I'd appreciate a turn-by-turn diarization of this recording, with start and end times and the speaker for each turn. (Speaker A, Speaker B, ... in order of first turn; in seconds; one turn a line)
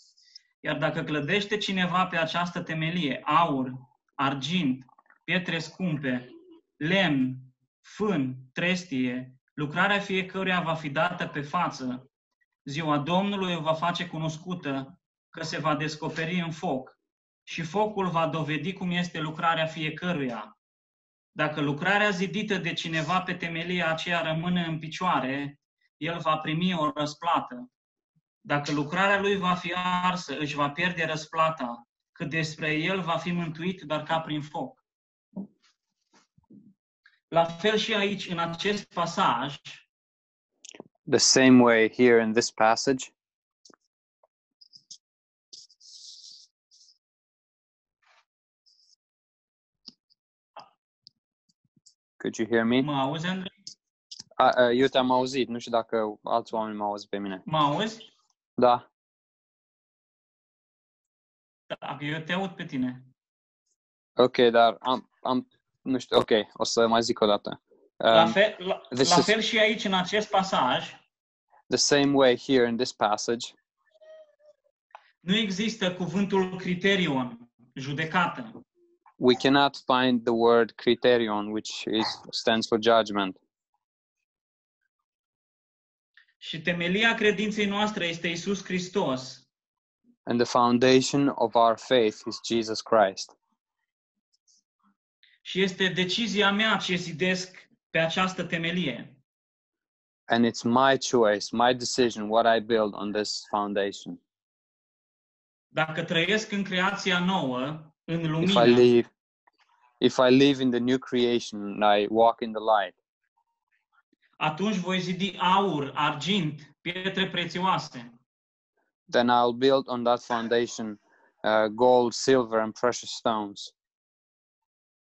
Speaker A: 0.6-12.1
Speaker A: 12.7-20.5
Speaker A: 21.4-27.7
Speaker A: 28.4-34.8
Speaker A: 37.3-39.9
Speaker B: 41.1-43.1
Speaker B: 52.2-52.9
Speaker A: 52.8-53.5
Speaker B: 54.4-57.4
Speaker A: 57.5-58.0
Speaker B: 58.6-58.8
Speaker A: 61.7-63.0
Speaker B: 64.2-68.3
Speaker A: 68.1-71.0
Speaker B: 68.9-69.3
Speaker B: 71.7-73.5
Speaker A: 75.2-78.6
Speaker B: 79.2-83.4
Speaker A: 86.4-89.5
Speaker B: 90.3-93.3
Speaker A: 95.5-99.2
Speaker B: 100.3-104.2
Speaker A: 105.7-108.9
Speaker B: 108.4-109.1
Speaker B: 110.0-113.0
Speaker A: 114.4-118.2
Speaker B: 119.1-123.7